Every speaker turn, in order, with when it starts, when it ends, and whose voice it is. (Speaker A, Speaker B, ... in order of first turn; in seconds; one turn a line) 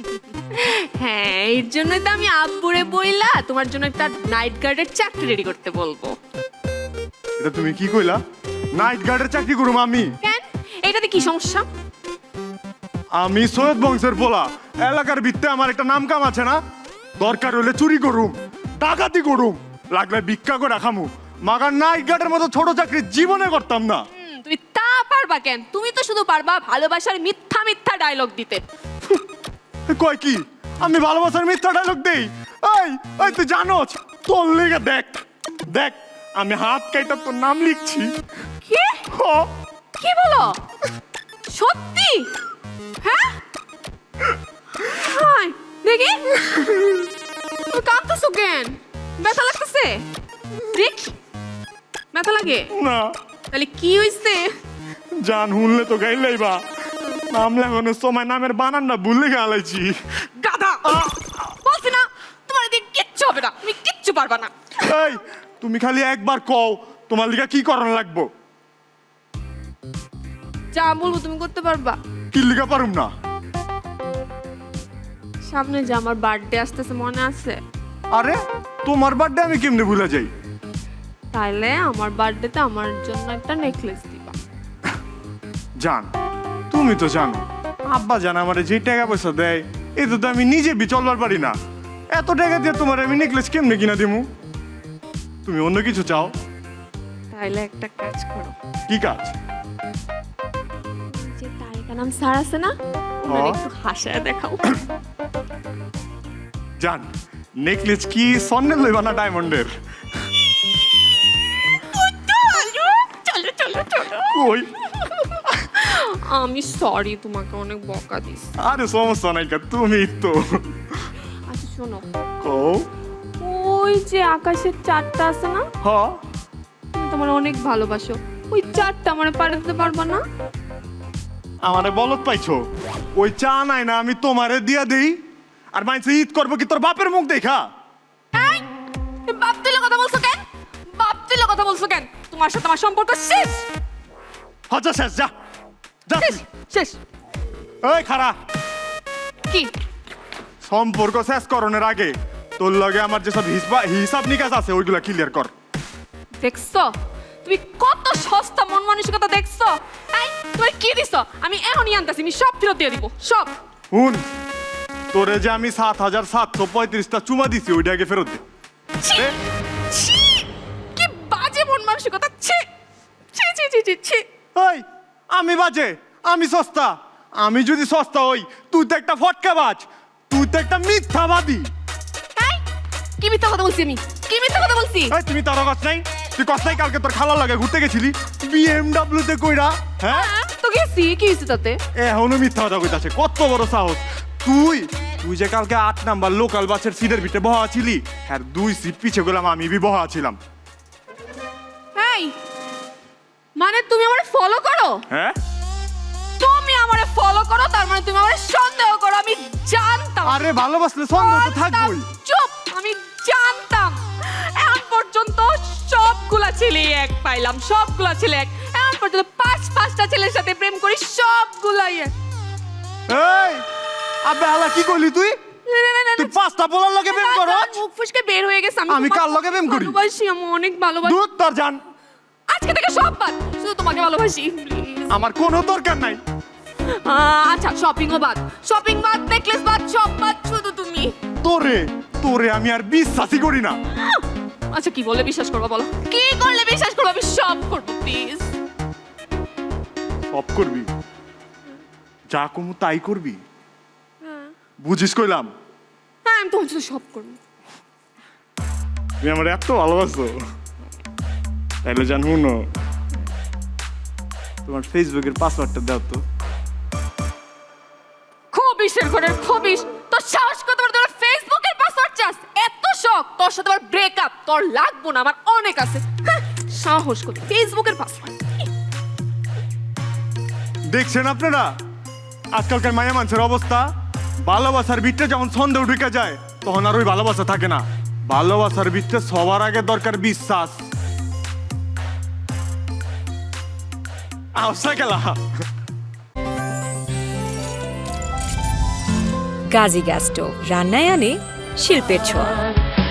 Speaker A: 0.5-6.2
Speaker B: 7.4-8.2
Speaker B: 8.8-10.1
Speaker A: 10.2-11.7
Speaker B: 13.2-16.6
Speaker B: 17.2-24.1
Speaker A: 24.2-28.6
Speaker B: 29.9-38.1
Speaker A: 38.6-39.0
Speaker B: 39.1-39.5
Speaker A: 40.0-40.6
Speaker A: 41.5-42.3
Speaker A: 43.0-43.4
Speaker A: 44.8-46.6
Speaker B: 46.5-47.0
Speaker A: 47.7-50.0
Speaker A: 50.7-51.2
Speaker A: 52.1-52.7
Speaker B: 52.7-53.1
Speaker A: 53.5-54.5
Speaker B: 55.2-56.6
Speaker B: 57.3-60.0
Speaker A: 60.4-64.5
Speaker B: 60.9-61.5
Speaker B: 64.8-68.3
Speaker A: 70.7-72.0
Speaker B: 72.3-73.1
Speaker A: 75.5-77.6
Speaker B: 78.1-80.3
Speaker A: 81.3-84.4
Speaker B: 85.8-86.1
Speaker B: 86.7-91.6
Speaker B: 92.1-94.3
Speaker B: 95.5-96.3
Speaker A: 97.3-98.5
Speaker B: 98.9-99.3
Speaker A: 101.1-102.7
Speaker A: 103.2-104.6
Speaker B: 103.3-103.6
Speaker B: 106.8-107.1
Speaker B: 107.6-109.7
Speaker A: 111.8-114.3
Speaker B: 114.2-114.7
Speaker A: 115.3-118.4
Speaker B: 118.6-120.6
Speaker A: 121.5-122.0
Speaker B: 122.4-122.9
Speaker A: 123.4-125.7
Speaker B: 125.8-126.2
Speaker A: 126.9-130.2
Speaker B: 131.7-132.7
Speaker B: 133.2-135.2
Speaker B: 135.7-137.7
Speaker A: 138.3-138.7
Speaker A: 139.3-140.4
Speaker A: 140.9-143.7
Speaker B: 144.7-145.3
Speaker B: 146.1-146.4
Speaker A: 146.2-147.0
Speaker B: 147.8-148.4
Speaker B: 150.6-155.5
Speaker A: 156.4-156.9
Speaker A: 157.4-163.5
Speaker B: 163.9-164.2
Speaker B: 165.1-168.4
Speaker A: 169.0-169.3
Speaker A: 169.9-172.7
Speaker A: 173.3-174.3
Speaker B: 174.6-181.7
Speaker A: 182.3-182.7
Speaker A: 183.2-185.1
Speaker B: 185.1-190.3
Speaker A: 190.1-191.8
Speaker B: 192.0-200.4
Speaker A: 201.9-202.3
Speaker A: 203.6-205.0
Speaker B: 205.1-205.3
Speaker A: 206.4-210.4
Speaker B: 210.2-212.1
Speaker A: 211.2-222.1
Speaker B: 223.1-223.7
Speaker B: 224.2-225.4
Speaker A: 225.7-226.3
Speaker B: 226.2-227.8
Speaker A: 227.1-231.2
Speaker B: 228.9-230.0
Speaker B: 231.0-231.8
Speaker A: 232.5-235.1
Speaker B: 235.1-236.2
Speaker A: 236.8-241.1
Speaker B: 241.4-243.8
Speaker A: 244.7-248.5
Speaker B: 250.3-250.9
Speaker B: 252.3-253.4
Speaker A: 254.2-254.5
Speaker B: 254.8-255.5
Speaker A: 256.2-257.4
Speaker B: 259.2-260.4
Speaker B: 261.8-262.6
Speaker B: 264.6-266.2
Speaker A: 268.5-278.4
Speaker B: 280.9-281.7
Speaker B: 282.6-283.9
Speaker B: 284.5-290.8
Speaker B: 294.6-295.4
Speaker C: 299.7-302.6